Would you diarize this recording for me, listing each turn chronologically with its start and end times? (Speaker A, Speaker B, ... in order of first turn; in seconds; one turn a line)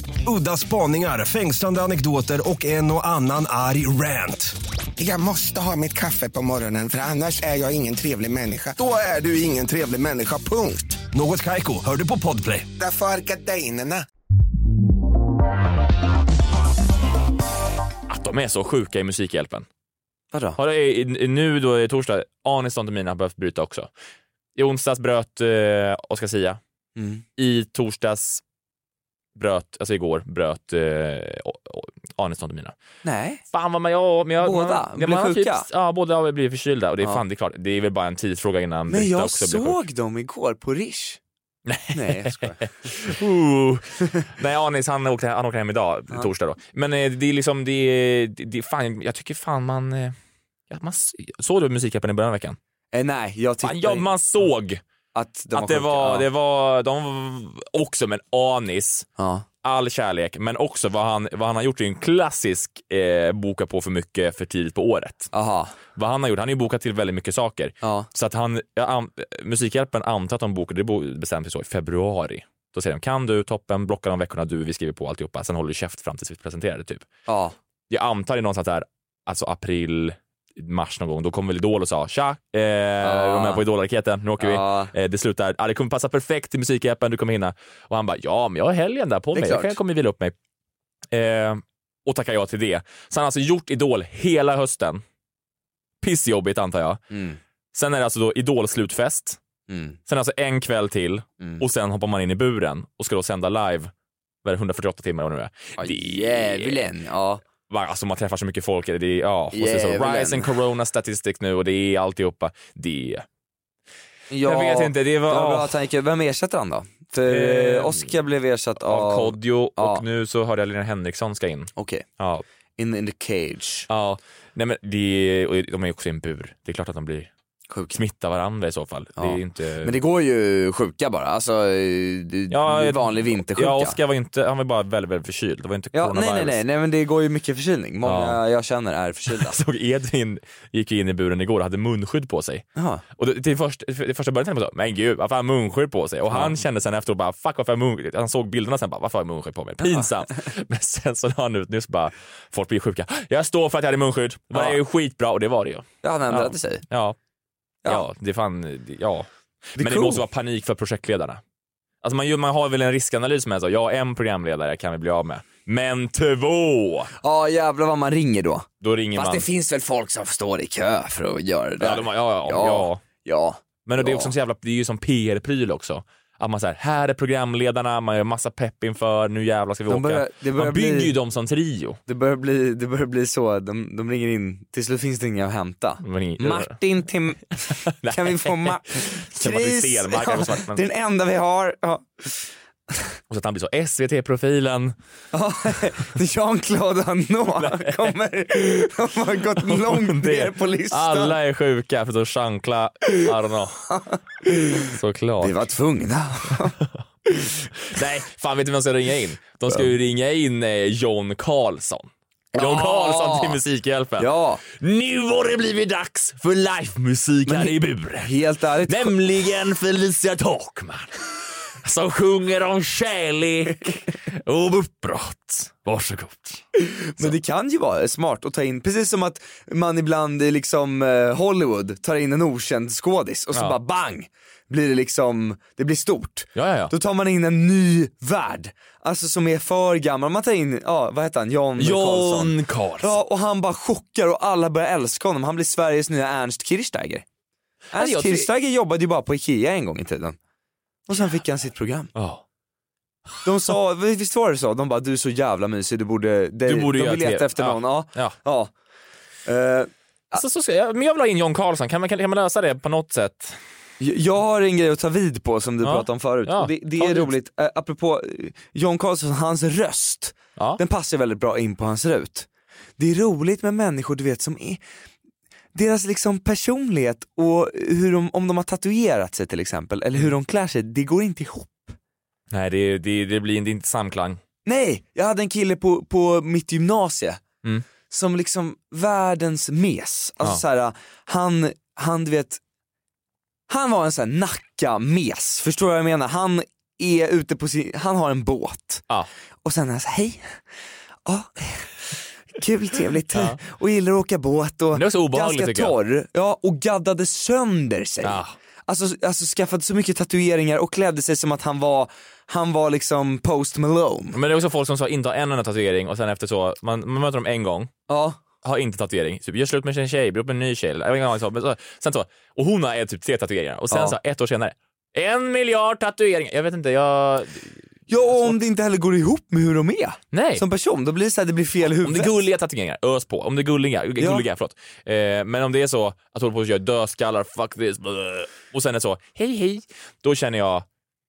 Speaker A: 0.3-4.5
Speaker B: 5.0-11.0
Speaker A: 11.1-12.7
Speaker B: 12.8-14.0
Speaker C: 18.1-19.7
Speaker D: 20.3-20.6
Speaker C: 20.6-23.9
Speaker C: 24.6-26.6
Speaker D: 27.0-27.2
Speaker C: 27.4-28.4
Speaker C: 29.4-32.8
Speaker D: 33.0-33.4
Speaker C: 33.5-39.8
Speaker D: 34.4-35.7
Speaker D: 38.9-41.2
Speaker C: 41.7-50.2
Speaker D: 41.9-42.6
Speaker C: 50.7-52.6
Speaker D: 52.9-54.1
Speaker C: 53.6-54.8
Speaker D: 55.1-56.3
Speaker C: 55.5-59.1
Speaker D: 59.2-59.5
Speaker C: 59.6-65.3
Speaker D: 65.3-65.8
Speaker C: 66.0-77.1
Speaker D: 67.8-68.1
Speaker D: 77.3-77.5
Speaker C: 77.9-90.3
Speaker D: 83.0-83.7
Speaker D: 84.4-84.9
Speaker D: 89.3-89.8
Speaker C: 91.1-95.0
Speaker C: 96.0-97.0
Speaker D: 97.1-97.4
Speaker C: 97.7-99.4
Speaker D: 99.7-100.0
Speaker C: 100.1-103.9
Speaker C: 104.4-106.9
Speaker D: 105.8-107.4
Speaker C: 107.7-113.2
Speaker D: 109.5-110.5
Speaker D: 114.3-120.0
Speaker C: 114.4-115.7
Speaker C: 117.3-118.1
Speaker C: 118.8-122.4
Speaker D: 121.8-122.0
Speaker D: 122.8-123.9
Speaker C: 123.9-127.3
Speaker D: 127.7-128.0
Speaker C: 127.9-129.9
Speaker D: 129.2-134.0
Speaker C: 132.5-136.6
Speaker D: 135.9-139.6
Speaker C: 138.0-138.4
Speaker C: 139.3-142.7
Speaker D: 142.8-143.0
Speaker C: 143.2-157.2
Speaker D: 146.3-146.6
Speaker D: 156.0-156.8
Speaker C: 157.8-161.4
Speaker D: 159.8-160.2
Speaker C: 162.0-167.1
Speaker D: 167.2-174.3
Speaker C: 168.8-169.5
Speaker C: 171.8-173.0
Speaker C: 173.9-182.0
Speaker D: 179.9-181.1
Speaker D: 182.1-192.5
Speaker C: 186.0-186.8
Speaker C: 187.7-190.9
Speaker C: 193.3-194.9
Speaker D: 195.3-201.4
Speaker C: 197.6-198.2
Speaker C: 199.6-203.9
Speaker D: 203.9-204.9
Speaker C: 204.9-205.5
Speaker D: 205.4-206.8
Speaker C: 207.6-226.7
Speaker D: 212.5-213.6
Speaker D: 214.2-214.6
Speaker D: 217.5-219.2
Speaker D: 226.8-247.3
Speaker C: 236.6-236.9
Speaker C: 241.8-243.1
Speaker C: 247.9-248.5
Speaker D: 247.9-250.4
Speaker D: 251.1-252.1
Speaker C: 252.2-252.4
Speaker D: 253.4-258.7
Speaker C: 256.7-258.4
Speaker D: 259.5-260.4
Speaker C: 260.4-263.6
Speaker D: 264.0-274.8
Speaker C: 265.8-267.3
Speaker D: 275.7-282.0
Speaker C: 282.5-284.4
Speaker D: 284.6-287.4
Speaker D: 288.1-292.6
Speaker D: 293.7-299.1
Speaker D: 299.6-300.6
Speaker D: 301.2-314.4
Speaker C: 303.3-303.6
Speaker C: 304.9-305.9
Speaker C: 308.2-308.6
Speaker C: 314.3-317.9
Speaker D: 318.1-318.4
Speaker C: 318.6-328.6
Speaker D: 323.9-324.2
Speaker D: 328.1-332.3
Speaker C: 330.3-330.6
Speaker C: 331.8-340.9
Speaker D: 334.2-334.5